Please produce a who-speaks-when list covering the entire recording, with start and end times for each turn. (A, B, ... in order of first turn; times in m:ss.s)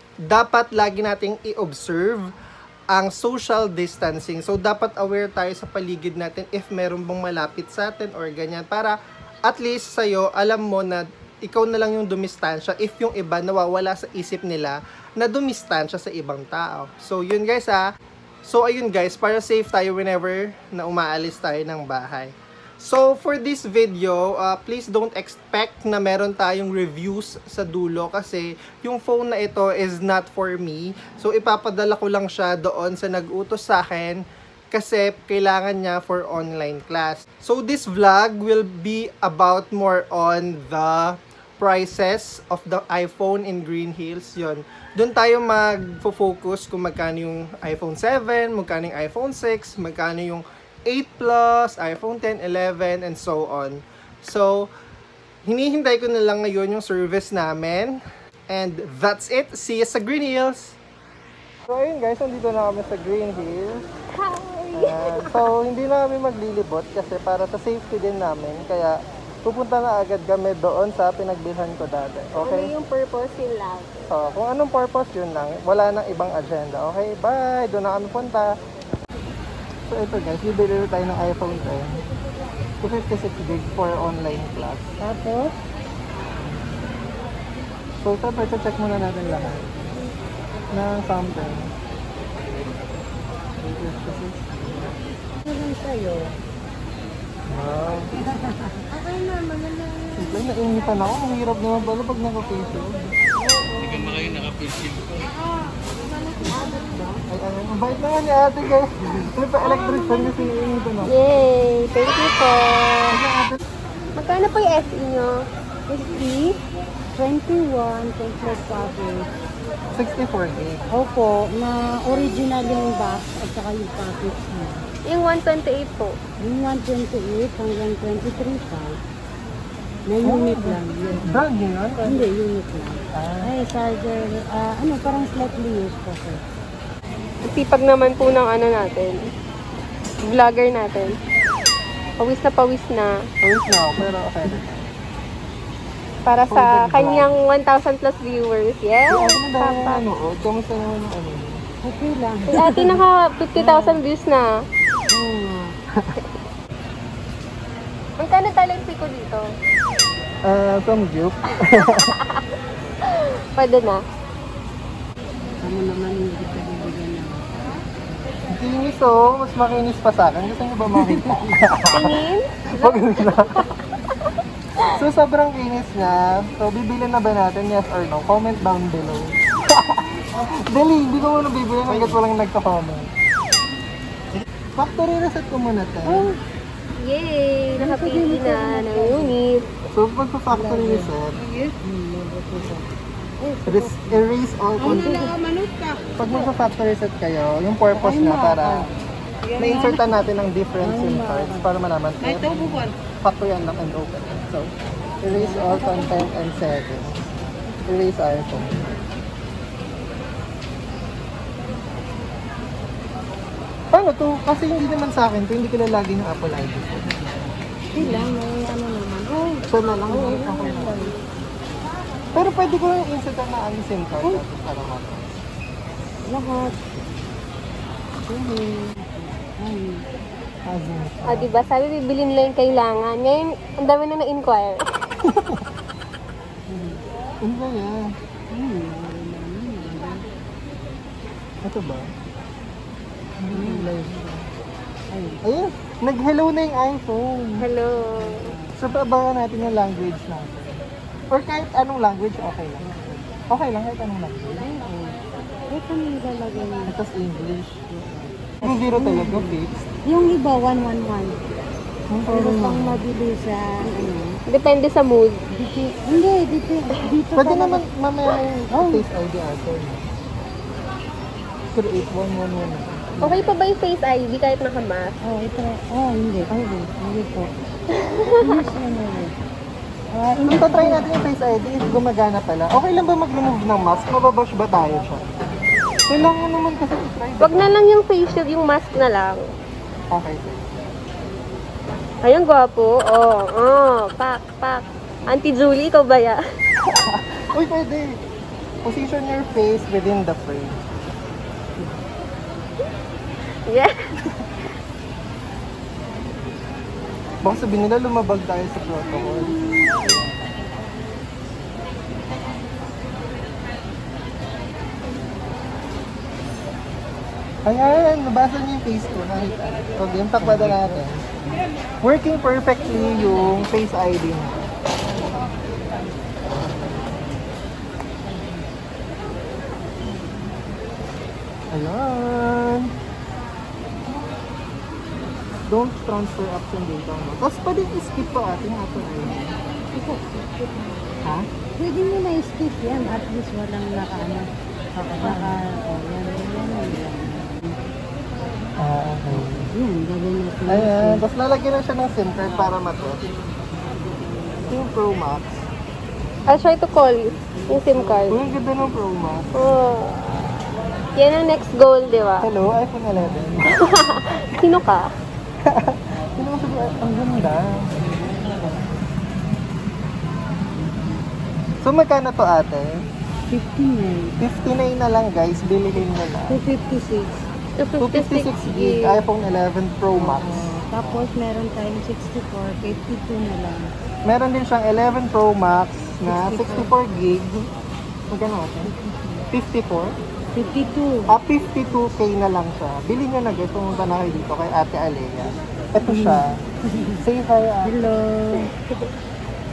0:00.3-0:02.2 A
0:02.9-0:08.9 A
0:09.5-0:17.8 A
0:18.4-0:54.7 A
0:55.4-0:58.0 A
0:58.5-1:00.8 A
1:01.7-1:03.8 A
1:04.2-1:05.4 B
1:04.7-1:12.7 A
1:12.4-1:14.1 B
1:14.0-1:18.5 A
1:19.9-1:22.0 A
1:22.8-1:24.9 A
1:25.0-1:25.5 C
1:28.0-1:29.7 A
1:30.7-1:31.7 A
1:33.6-1:34.6 A
1:35.4-1:36.4 C
1:37.5-1:38.1 A
1:38.2-1:39.4 C
1:40.1-1:43.2 A
1:47.2-1:51.1 A
1:49.0-1:49.3 C
1:49.6-1:50.5 B
1:51.0-1:53.2 B
1:53.1-1:53.6 A
1:54.2-1:55.3 B
1:55.9-1:56.5 C
1:57.2-1:59.3 C
1:59.9-2:00.9 A
2:00.9-2:04.8 C
2:05.0-2:06.2 B
2:06.4-2:09.0 C
2:10.1-2:11.4 C
2:10.2-2:12.3 A
2:12.0-2:16.4 C
2:13.1-2:13.5 A
2:17.5-2:19.3 B
2:20.2-2:21.1 B
2:22.2-2:23.1 B
2:23.4-2:24.8 A
2:24.0-2:24.6 C
2:26.2-2:30.0 B
2:26.5-2:27.3 A
2:29.1-2:31.6 A
2:31.8-2:33.0 C
2:32.6-2:34.5 B
2:33.6-2:34.0 C
2:35.1-2:35.7 C
2:38.2-2:39.4 B
2:40.4-2:42.1 A
2:43.1-2:44.0 B
2:45.6-2:47.8 C
2:48.5-2:52.1 A
2:51.0-2:51.5 C
2:51.9-2:53.6 B
2:52.8-2:53.6 A
2:54.9-3:03.1 A
3:01.9-3:02.2 C
3:04.4-3:06.3 A
3:06.1-3:06.4 C
3:07.0-3:09.6 B
3:07.8-3:09.4 C
3:09.9-3:11.4 A
3:10.5-3:11.1 C
3:11.6-3:16.0 C
3:13.6-3:15.3 A
3:16.2-3:18.8 A
3:17.9-3:18.9 C
3:19.5-3:20.2 C
3:19.6-3:24.7 A
3:20.8-3:21.7 C
3:22.2-3:22.9 C
3:25.2-3:27.3 A
3:25.3-3:26.3 C
3:27.8-3:28.8 A
3:33.9-3:37.1 A
3:38.0-3:41.1 C
3:39.6-3:41.0 A
3:42.3-3:45.2 A
3:46.3-3:46.8 C
3:48.3-3:50.0 C
3:50.7-3:51.5 A
3:51.2-3:54.8 B
3:55.2-3:55.6 A
3:56.7-3:57.0 C
3:57.4-3:58.0 A
3:58.5-4:00.3 C
4:01.6-4:02.0 A
4:03.4-4:04.5 A
4:03.5-4:03.9 C
4:05.1-4:05.4 C
4:05.4-4:07.6 A
4:07.6-4:08.4 B
4:08.2-4:08.7 C
4:08.7-4:12.9 A
4:12.8-4:13.3 C
4:13.4-4:14.7 A
4:14.7-4:17.0 C
4:16.9-4:17.8 A
4:17.9-4:21.4 C
4:18.6-4:19.8 A
4:22.1-4:23.0 A
4:22.3-4:24.4 C
4:24.5-4:25.4 B
4:25.5-4:27.8 C
4:27.4-4:30.1 A
4:28.7-4:29.0 C
4:31.7-4:33.2 A
4:33.2-4:35.1 B
4:35.2-4:37.5 C
4:38.0-4:38.3 B
4:38.4-4:39.3 C
4:40.1-4:41.2 C
4:40.4-4:45.2 A
4:46.1-4:47.8 A
4:47.4-4:49.4 B
4:50.1-4:50.7 A
4:52.2-4:56.4 B
4:56.8-4:58.1 A
4:58.8-5:00.8 A
5:07.4-5:09.6 A
5:17.6-5:21.3 A
5:20.4-5:21.0 C
5:22.0-5:24.6 A
5:31.7-5:32.9 A
5:35.7-5:39.4 A
5:39.9-5:40.7 C
5:41.8-5:47.8 C
5:45.2-5:45.6 A
5:48.8-5:49.7 A
5:49.3-5:51.2 C
5:50.7-5:53.2 A
5:54.6-5:55.6 A
5:56.5-5:58.4 B
5:58.3-5:59.5 A
5:59.6-6:00.2 B
6:01.2-6:02.5 B
6:02.4-6:03.8 A
6:03.8-6:05.0 B
6:05.6-6:08.0 A
6:11.8-6:12.9 A
6:13.5-6:14.4 C
6:14.4-6:16.6 A
6:16.5-6:17.4 C
6:17.8-6:19.2 B
6:18.0-6:21.3 A
6:20.1-6:23.8 C
6:24.2-6:27.6 A
6:26.2-6:26.9 C
6:28.3-6:28.9 A
6:29.0-6:29.4 C
6:29.5-6:30.1 A
6:30.5-6:31.3 C
6:31.3-6:36.6 A
6:36.0-6:37.2 C
6:37.2-6:38.0 A
6:37.8-6:38.7 C